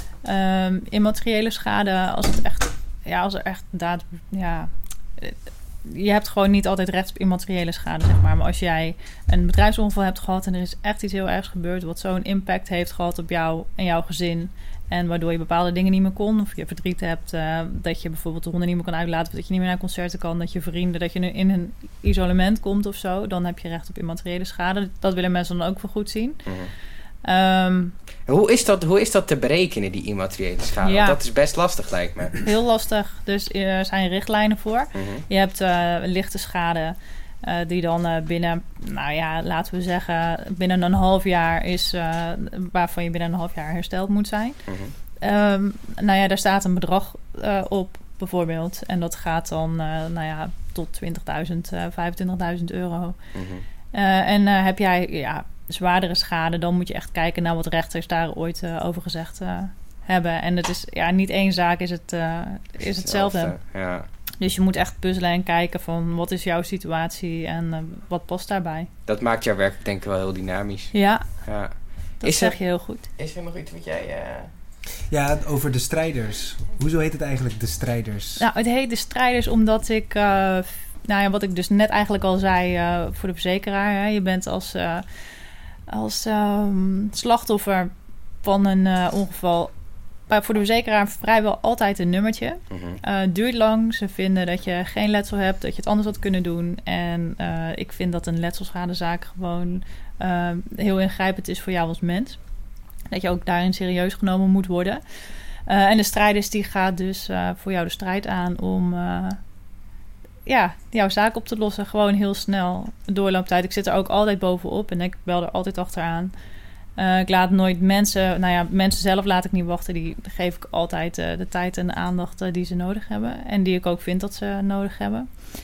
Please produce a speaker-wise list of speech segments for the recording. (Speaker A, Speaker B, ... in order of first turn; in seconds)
Speaker A: 0.2-26.4, 27.2-27.9, 30.8-31.2, 32.4-44.6, 45.2-53.2, 53.9-63.5, 64.4-68.9, 70.9-71.2, 72.2-73.1, 78.4-85.0, 85.9-87.9, 88.4-89.7, 90.3-102.4, 103.1-105.0, 105.7-109.4, 110.5-116.3, 117.0-125.3
Speaker B: 28.3-32.4, 34.9-35.2, 44.7-44.9, 53.3-53.6, 62.9-64.0, 69.1-70.9, 71.4-71.7, 72.2-72.5, 73.2-74.5, 92.7-93.0
Speaker C: 75.1-78.4